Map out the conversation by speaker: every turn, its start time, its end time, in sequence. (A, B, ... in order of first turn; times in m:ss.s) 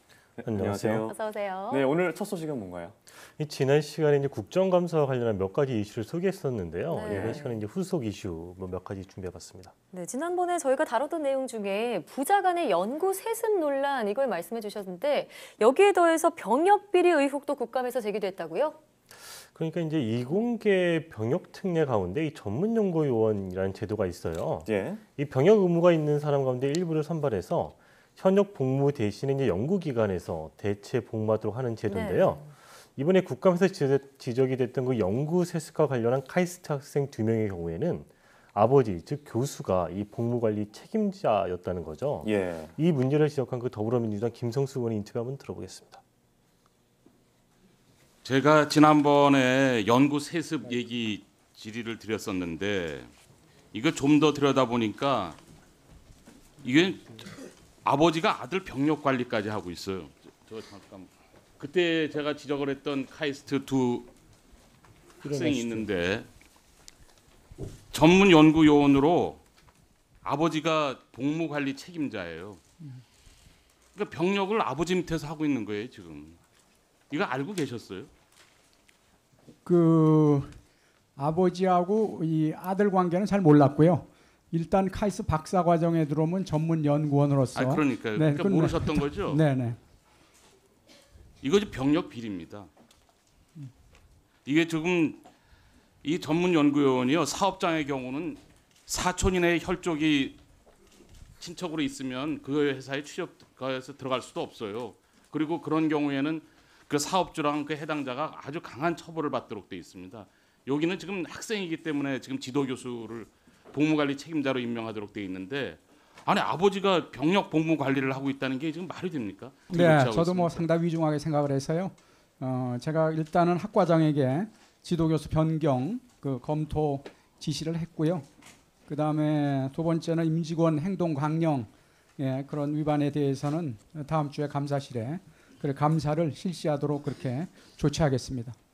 0:00.4-0:01.2 A
0:00.4-0:01.0 B
0:01.1-0:01.9 C
0:01.7-0:02.9 A
0:03.4-0:09.7 B
0:06.9-0:07.6 C
0:07.1-0:07.4 A
0:09.9-0:18.8 C
0:19.4-0:46.0 B
0:24.6-0:25.0 A
0:31.9-0:32.5 C
0:42.2-0:42.7 A
0:48.2-0:53.1 D
0:53.7-0:55.4 D
0:56.6-0:57.3 D
0:57.8-1:04.1 D
1:05.2-1:06.3 D
1:05.3-1:05.8 B
1:07.9-1:09.4 D
1:10.2-1:12.6 D
1:13.9-1:16.4 D
1:17.1-1:18.1 D
1:19.6-1:20.5 E
1:21.2-1:29.8 E
1:27.5-1:29.4 D
1:31.4-1:32.7 D
1:34.4-1:35.2 D
1:36.0-1:40.4 D
1:41.4-2:00.6 D
1:59.7-2:08.2 E
2:08.9-2:18.5 E